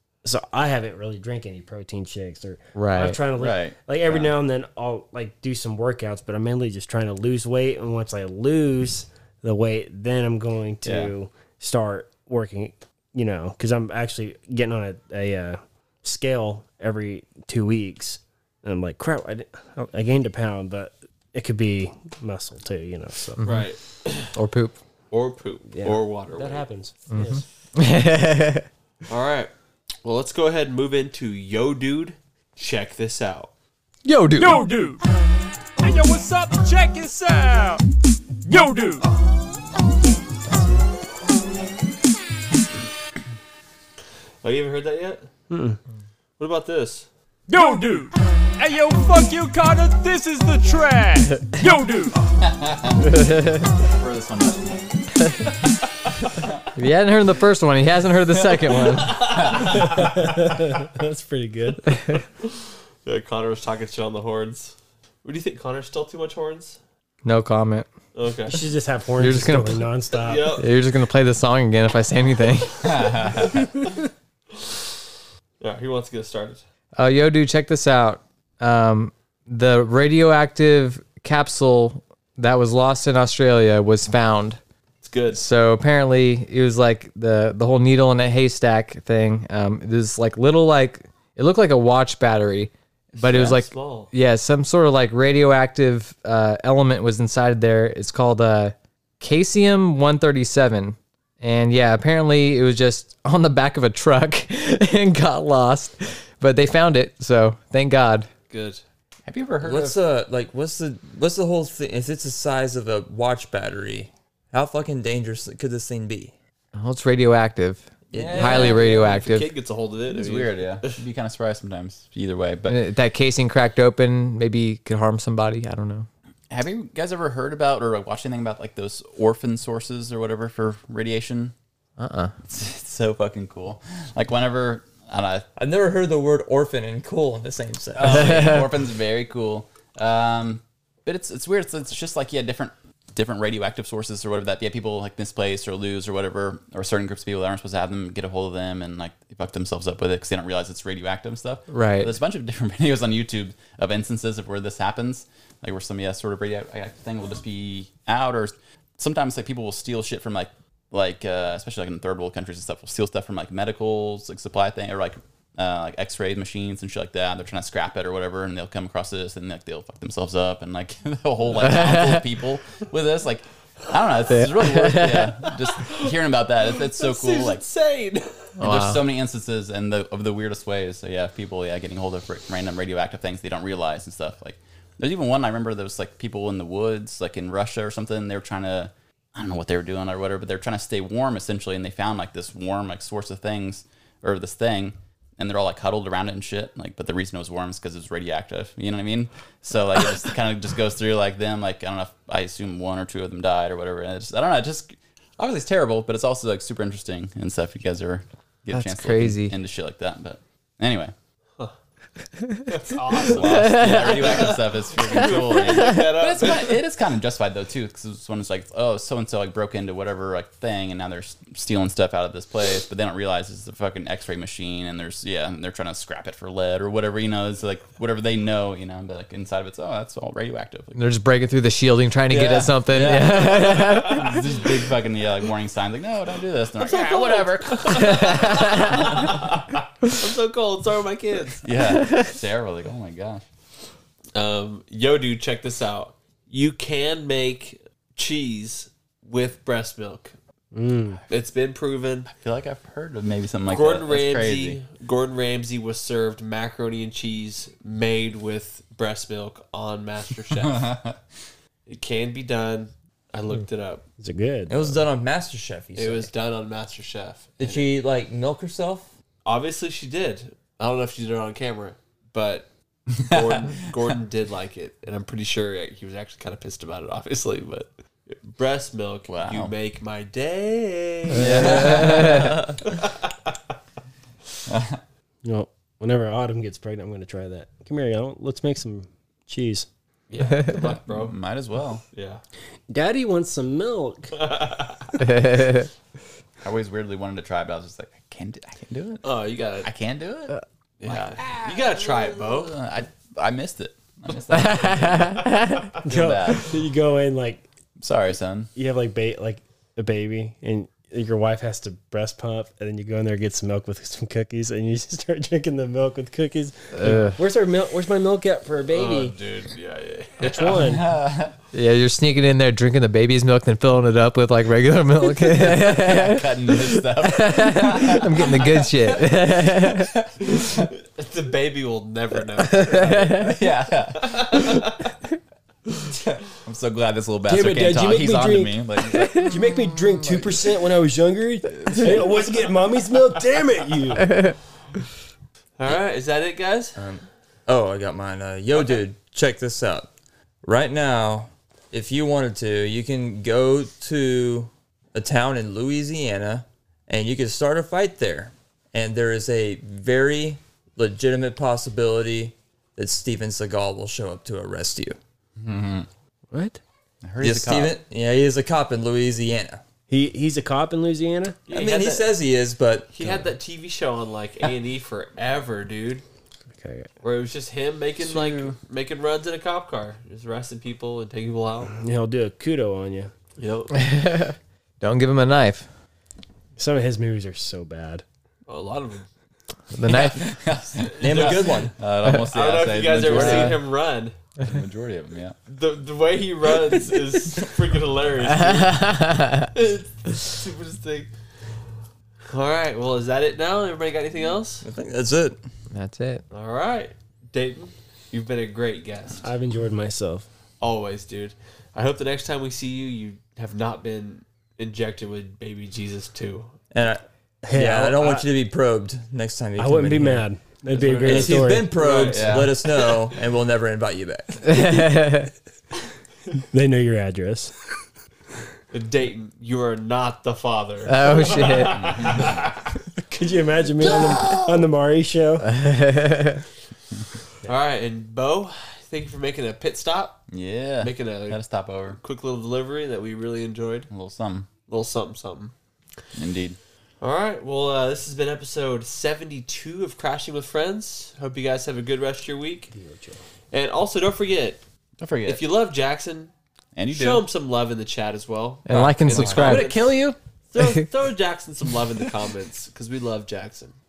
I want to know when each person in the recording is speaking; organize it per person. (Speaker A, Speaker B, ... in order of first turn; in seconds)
Speaker A: 0.2-23.4, 25.7-27.4, 45.5-45.8, 59.7-62.0, 68.5-70.6, 250.7-251.2, 264.2-264.8, 285.4-289.9, 292.9-294.4, 306.0-307.6, 308.8-319.4, 320.4-321.1, 337.5-338.8, 339.4-344.4, 366.5-366.8, 370.1-371.6, 376.8-377.1, 382.0-383.3, 386.8-388.2, 409.4-410.5, 417.6-418.5, 419.8-422.1, 426.7-427.7, 433.3-435.7, 452.9-453.4
Speaker B: 2.8-3.2, 23.4-23.7, 24.3-24.8, 27.1-28.7, 34.0-34.6, 53.0-53.7, 56.8-59.2, 67.2-67.9, 69.2-69.9, 70.6-72.7, 77.0-84.6, 85.3-108.3, 116.8-119.5, 122.7-126.1, 132.0-132.3, 138.1-138.7, 151.7-152.2, 171.6-172.2, 174.3-175.3, 178.6-179.0, 208.7-209.6, 213.5-214.3, 230.9-234.4, 238.2-238.9, 281.3-282.6, 295.2-295.9, 304.7-305.8, 317.0-317.4, 321.7-330.1, 332.6-333.4, 383.9-385.9, 389.9-390.5, 393.3-393.7, 398.5-399.7, 405.9-406.4, 424.6-425.5, 431.1-431.9, 435.7-436.6, 458.9-460.4
Speaker C: 3.4-4.3, 10.8-11.1, 52.4-53.0, 53.8-54.9, 72.8-73.7, 109.3-110.0, 120.1-122.8, 126.5-131.5, 132.5-135.5, 137.9-177.6, 178.6-211.1, 213.1-231.0, 232.3-238.3, 241.6-243.4, 252.3-254.8, 260.6-261.2, 273.2-274.0, 279.3-279.7, 281.3-282.6, 284.7-285.0, 290.6-292.0, 296.6-299.3, 299.8-305.5, 306.1-306.7, 308.0-308.7, 320.8-321.6, 325.7-328.8, 333.2-334.6, 336.3-340.4, 365.6-366.1, 367.2-368.0, 378.3-378.7, 390.1-393.9, 394.6-395.6, 421.0-422.8, 431.9-432.6, 440.5-442.2, 444.1-444.7, 446.4-446.8, 455.2-455.6, 456.9-457.5, 459.0-459.9
Speaker D: 23.4-24.3, 25.1-26.6, 29.1-29.5, 30.0-33.5, 44.4-45.3, 46.4-47.1, 58.9-60.0, 62.4-66.8, 68.2-68.6, 70.2-70.7, 74.5-75.0, 75.6-76.6, 85.0-85.4, 93.2-94.1, 108.5-108.8, 118.2-121.0, 175.5-176.1, 176.6-178.6, 212.7-216.8, 236.8-241.7, 244.3-250.3, 251.3-252.3, 253.7-260.9, 261.9-264.0, 266.0-267.9, 269.4-272.7, 273.3-283.5, 290.3-291.4, 292.1-292.4, 294.4-295.1, 299.2-299.9, 301.0-302.8, 318.9-320.7, 331.0-333.5, 334.2-335.1, 345.8-347.0, 371.7-372.3, 373.1-376.2, 377.2-381.9, 383.6-384.0, 388.7-389.3, 392.3-394.4, 395.7-399.1, 399.7-401.3, 402.5-404.9, 406.5-409.5, 410.8-416.7, 422.0-422.6, 428.9-432.7, 437.6-440.4, 441.0-441.6, 442.2-444.1, 444.9-445.7, 447.2-452.9, 453.7-454.8, 455.5-456.5, 457.1-460.2, 460.7-464.0
Speaker E: 34.4-35.0, 35.8-37.8, 38.5-39.1, 47.5-52.2
Speaker F: 109.6-116.3, 118.1-119.0, 135.6-138.6, 264.7-266.3, 267.6-269.1, 347.0-350.1, 350.6-365.2, 367.4-369.8, 371.7-373.4, 391.2-391.9, 404.8-405.6, 416.9-420.5, 421.2-424.9